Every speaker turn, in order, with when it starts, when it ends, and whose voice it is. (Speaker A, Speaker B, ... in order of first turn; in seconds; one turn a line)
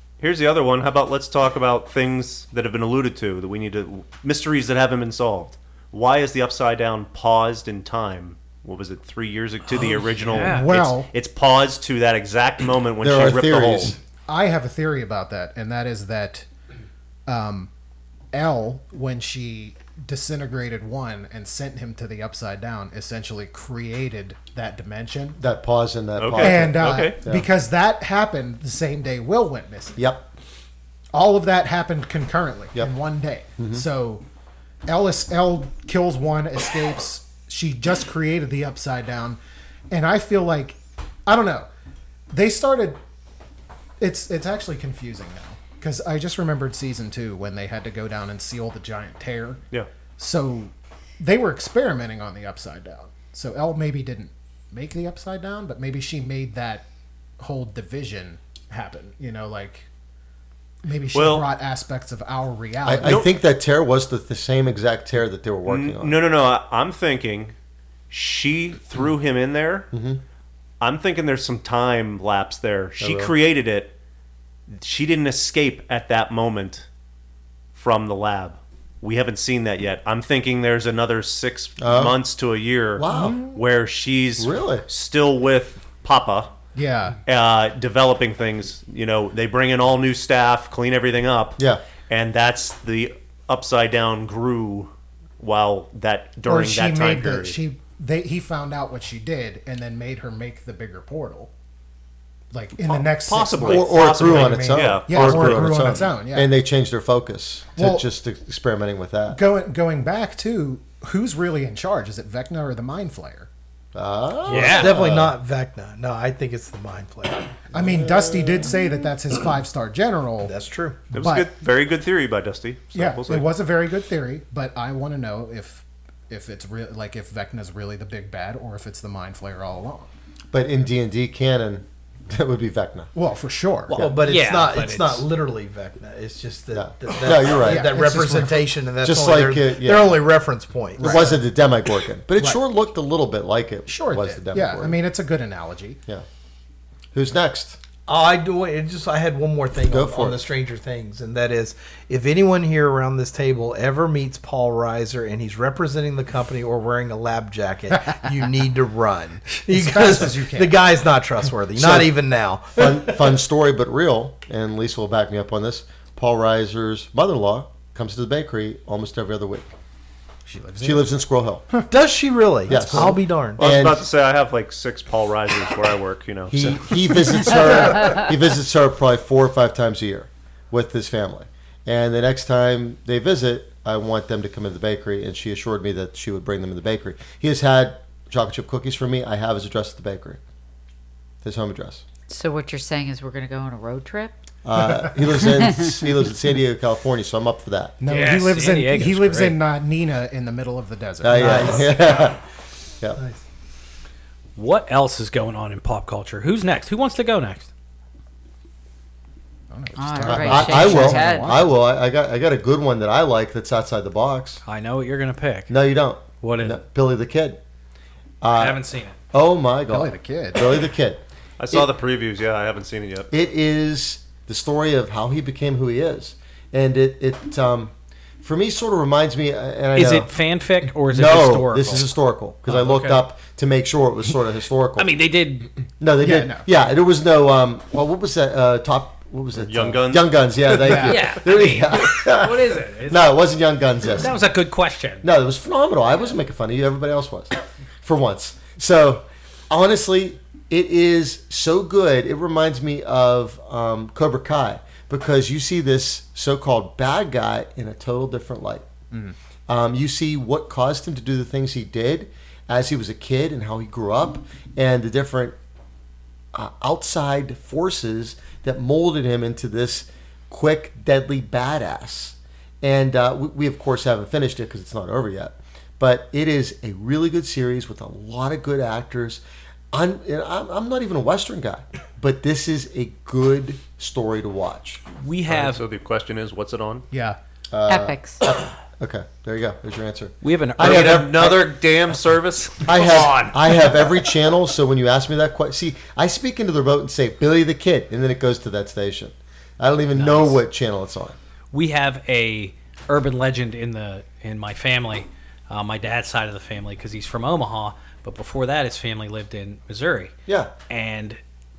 Speaker A: 0.2-13.9
Speaker B: 10.0-10.7
Speaker C: 10.3-11.1
Speaker D: 13.0-14.0
Speaker C: 14.3-16.5
Speaker C: 17.2-17.7
Speaker C: 18.3-25.4
Speaker D: 25.4-27.5
Speaker A: 26.2-27.2
Speaker C: 26.4-30.0
Speaker D: 30.0-30.3
Speaker C: 31.1-34.2
Speaker D: 33.6-33.8
Speaker C: 34.9-39.4
Speaker C: 39.9-41.7
Speaker C: 42.3-43.0
Speaker C: 44.0-49.6
Speaker C: 50.2-56.8
Speaker C: 57.4-59.9
Speaker C: 60.8-63.3
Speaker A: 61.1-61.5
Speaker D: 62.8-66.2
Speaker A: 63.0-63.3
Speaker A: 65.7-67.5
Speaker A: 68.1-69.9
Speaker D: 69.9-70.2
Speaker A: 70.8-73.9
Speaker D: 73.0-73.3
Speaker A: 74.7-76.8
Speaker A: 77.7-86.5
Speaker D: 81.8-82.2
Speaker D: 83.0-83.5
Speaker C: 83.1-83.5
Speaker D: 84.4-84.8
Speaker C: 86.7-87.2
Speaker A: 87.2-97.6
Speaker C: 96.5-101.5
Speaker C: 102.5-106.5
Speaker A: 102.8-106.0
Speaker D: 103.6-109.4
Speaker C: 107.8-108.0
Speaker C: 109.3-113.5
Speaker D: 113.9-115.3
Speaker B: 114.5-114.9
Speaker E: 114.5-117.7
Speaker C: 117.7-120.5
Speaker D: 117.7-118.9
Speaker E: 120.4-121.0
Speaker C: 121.1-121.5
Speaker A: 121.1-123.5
Speaker C: 122.9-130.1
Speaker D: 130.5-133.1
Speaker C: 133.1-134.0
Speaker B: 133.9-135.2
Speaker E: 133.9-141.4
Speaker D: 136.7-137.9
Speaker C: 137.5-138.7
Speaker D: 139.0-140.2
Speaker C: 141.0-141.4
Speaker D: 141.0-145.0
Speaker C: 143.9-146.0
Speaker D: 147.1-147.8
Speaker E: 148.1-163.3
Speaker D: 149.9-150.4
Speaker C: 159.6-160.8
Speaker D: 161.8-162.1
Speaker D: 162.7-169.7
Speaker C: 170.4-171.1
Speaker D: 170.8-171.7
Speaker E: 171.9-173.6
Speaker C: 172.7-173.2
Speaker D: 172.7-174.1
Speaker A: 173.6-177.2
Speaker D: 176.5-190.4
Speaker D: 191.4-192.0
Speaker F: 192.3-194.4
Speaker D: 194.6-198.0
Speaker F: 195.6-195.9
Speaker C: 198.0-201.9
Speaker B: 198.1-199.6
Speaker D: 201.2-202.4
Speaker E: 201.4-201.7
Speaker E: 203.2-203.4
Speaker B: 204.6-207.7
Speaker C: 209.7-211.7
Speaker F: 210.0-211.6
Speaker D: 210.2-214.6
Speaker B: 214.6-215.7
Speaker D: 215.7-217.6
Speaker B: 216.4-216.8
Speaker D: 218.4-221.9
Speaker B: 218.6-219.2
Speaker C: 219.9-220.6
Speaker A: 221.6-223.3
Speaker D: 223.3-230.3
Speaker B: 229.9-232.1
Speaker D: 231.1-235.1
Speaker B: 232.7-233.2
Speaker B: 235.0-235.7
Speaker D: 236.0-244.4
Speaker C: 236.2-236.7
Speaker A: 239.6-241.2
Speaker C: 240.8-241.1
Speaker B: 240.9-243.5
Speaker B: 244.0-245.2
Speaker D: 245.2-258.9
Speaker D: 259.7-265.6
Speaker D: 266.5-285.0
Speaker B: 285.2-285.8
Speaker A: 285.5-287.0
Speaker C: 287.1-287.4
Speaker D: 287.7-291.7
Speaker F: 287.9-288.4
Speaker B: 290.4-291.3
Speaker A: 290.8-294.1
Speaker D: 292.8-301.4
Speaker B: 300.1-300.6
Speaker B: 301.7-310.3
Speaker D: 310.5-310.7
Speaker B: 310.9-311.4